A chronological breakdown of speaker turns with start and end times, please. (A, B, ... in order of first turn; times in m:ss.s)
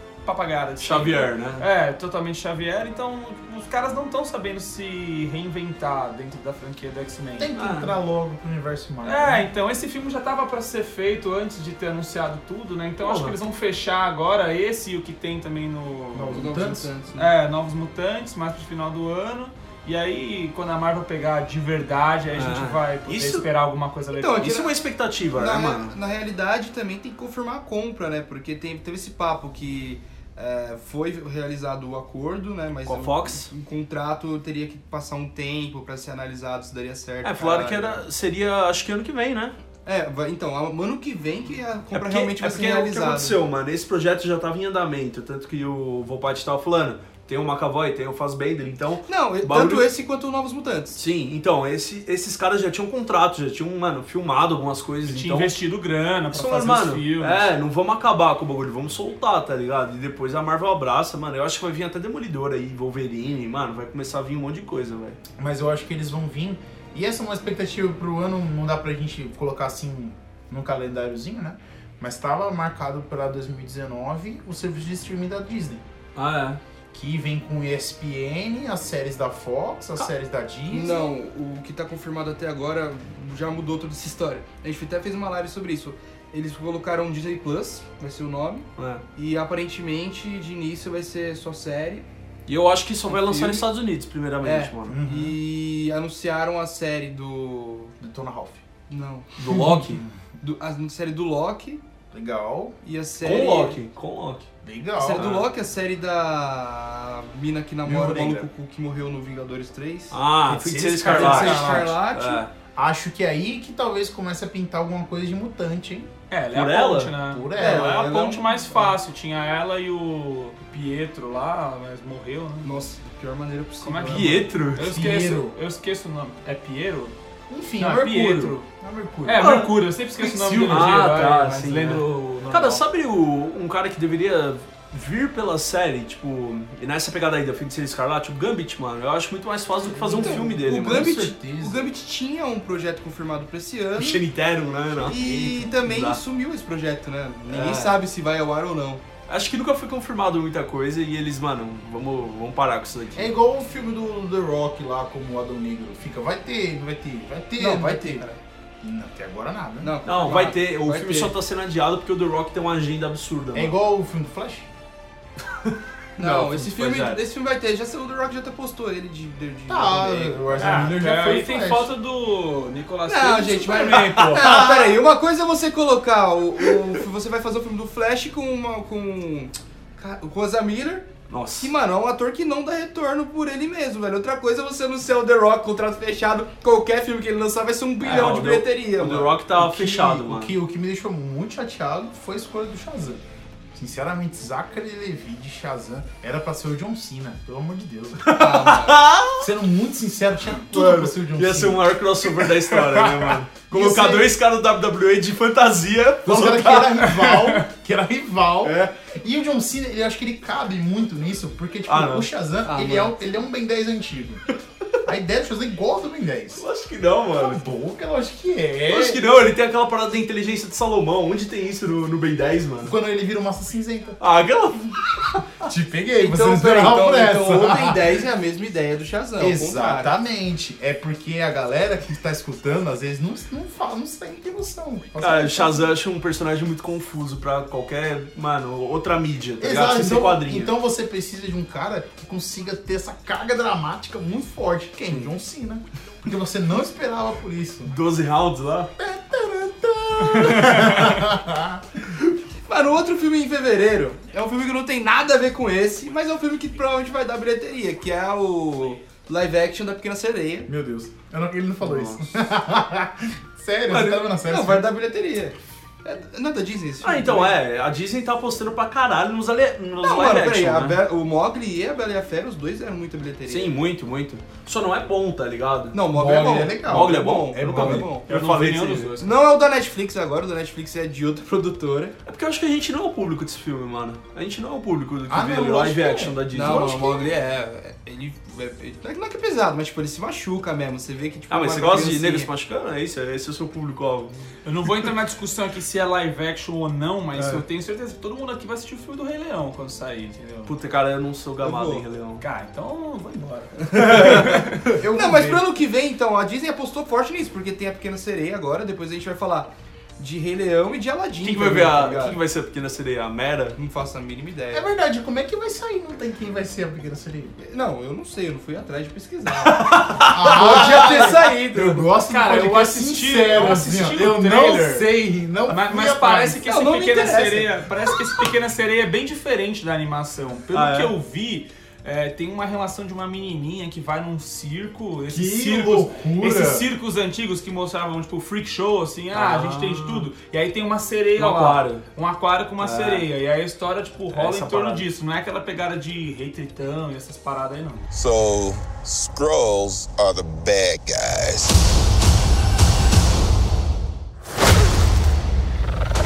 0:00.2-0:07.5 A
0:00.8-0:01.6 B
0:07.4-0:09.5 C
0:07.6-0:08.0 B
0:09.0-0:16.5 A
0:13.0-0:13.4 B
0:16.1-0:16.9 C
0:16.3-0:17.3 D
0:17.1-0:24.6 A
0:22.3-0:23.5 B
0:24.2-0:24.8 D
0:24.4-0:26.0 B
0:25.3-0:38.0 D
0:32.9-0:33.5 B
0:37.2-0:39.6 B
0:39.8-0:43.4 D
0:41.9-0:49.9 B
0:49.1-0:51.0 D
0:51.0-0:55.6 B
0:55.0-0:57.5 A
0:56.3-1:05.2 B
1:05.4-1:15.8 C
1:16.2-1:16.6 B
1:16.9-1:21.2 C
1:20.7-1:32.1 D
1:28.8-1:29.0 B
1:32.5-1:35.0 B
1:33.1-1:33.6 D
1:34.4-1:37.9 D
1:34.9-1:35.4 C
1:38.0-1:38.6 C
1:38.9-1:39.3 D
1:39.4-1:40.0 B
1:39.5-1:40.3 C
1:40.4-1:41.8 D
1:42.1-1:42.8 C
1:42.8-1:43.8 D
1:43.2-1:44.5 B
1:44.6-1:45.3 C
1:45.0-1:50.2 D
1:45.1-1:45.5 B
1:47.8-1:48.5 C
1:50.1-1:52.5 B
1:50.5-1:52.0 C
1:51.0-1:52.4 D
1:51.1-1:51.9 A
1:52.8-1:56.1 C
1:56.3-2:02.9 A
1:56.5-1:57.1 B
1:57.3-1:58.0 C
1:57.6-1:59.0 D
2:02.6-2:04.5 D
2:03.8-2:07.1 A
2:04.1-2:05.0 B
2:04.8-2:05.6 C
2:07.5-2:09.7 C
2:07.8-2:08.7 A
2:09.2-2:12.8 A
2:09.4-2:21.2 B
2:19.9-2:21.9 C
2:20.0-2:24.2 D
2:24.0-2:26.2 B
2:24.9-2:25.8 C
2:25.1-2:29.0 D
2:27.5-2:28.0 B
2:29.3-2:33.3 B
2:33.1-2:38.3 C
2:37.6-2:38.4 D
2:38.8-2:40.0 C
2:39.8-2:41.3 D
2:40.0-2:43.8 B
2:43.5-2:44.7 C
2:45.5-2:47.2 B
2:46.2-2:50.9 D
2:49.7-2:51.9 C
2:50.6-2:54.4 A
2:53.1-3:01.1 D
2:53.7-2:55.0 B
2:56.6-2:57.0 B
3:01.3-3:01.7 B
3:01.6-3:09.4 D
3:08.0-3:10.6 B
3:09.6-3:13.2 C
3:13.7-3:18.3 C
3:18.2-3:19.5 B
3:18.4-3:19.0 D
3:19.4-3:22.0 C
3:20.6-3:27.1 B
3:23.7-3:24.4 C
3:26.2-3:34.4 C
3:27.1-3:27.7 A
3:28.6-3:28.9 B
3:31.9-3:32.3 B
3:32.6-3:33.2 D
3:35.0-3:36.6 C
3:36.6-3:37.6 B
3:37.3-3:39.3 C
3:38.9-3:43.0 B
3:42.8-3:44.2 C
3:44.2-3:45.4 B
3:45.6-3:48.2 C
3:46.2-3:50.1 D
3:49.4-3:55.9 C
3:55.2-4:00.7 B
3:59.6-4:08.0 C
4:07.9-4:08.9 B
4:09.0-4:12.2 C
4:10.6-4:11.0 A
4:12.7-4:20.7 D
4:20.6-4:24.9 C
4:21.8-4:22.3 B
4:23.9-4:24.2 B
4:24.4-4:27.6 D
4:27.0-4:31.0 B
4:30.0-4:33.8 D
4:33.5-4:36.0 B
4:35.9-4:38.3 D
4:36.1-4:38.1 C
4:36.8-4:39.1 B
4:38.3-4:39.3 A
4:39.2-4:42.1 D
4:42.2-4:47.2 B
4:45.3-4:47.3 C
4:46.5-4:52.5 D
4:51.5-4:54.4 B
4:54.6-5:00.7 A
5:00.7-5:02.4 B
5:01.6-5:02.0 D
5:02.4-5:04.9 A
5:04.0-5:04.2 D
5:04.0-5:04.6 B
5:04.9-5:05.7 C
5:05.1-5:12.4 D
5:11.4-5:13.8 B
5:13.8-5:14.9 D
5:14.7-5:17.6 C
5:17.6-5:20.0 D
5:19.6-5:21.3 B
5:20.3-5:26.6 C
5:20.5-5:22.1 D
5:22.2-5:48.0 A
5:26.6-5:27.7 D
5:30.7-5:31.1 B
5:35.3-5:36.9 C
5:39.3-5:40.3 B
5:41.4-5:42.1 B
5:42.8-5:43.3 B
5:44.3-5:45.1 B
5:48.1-5:51.8 E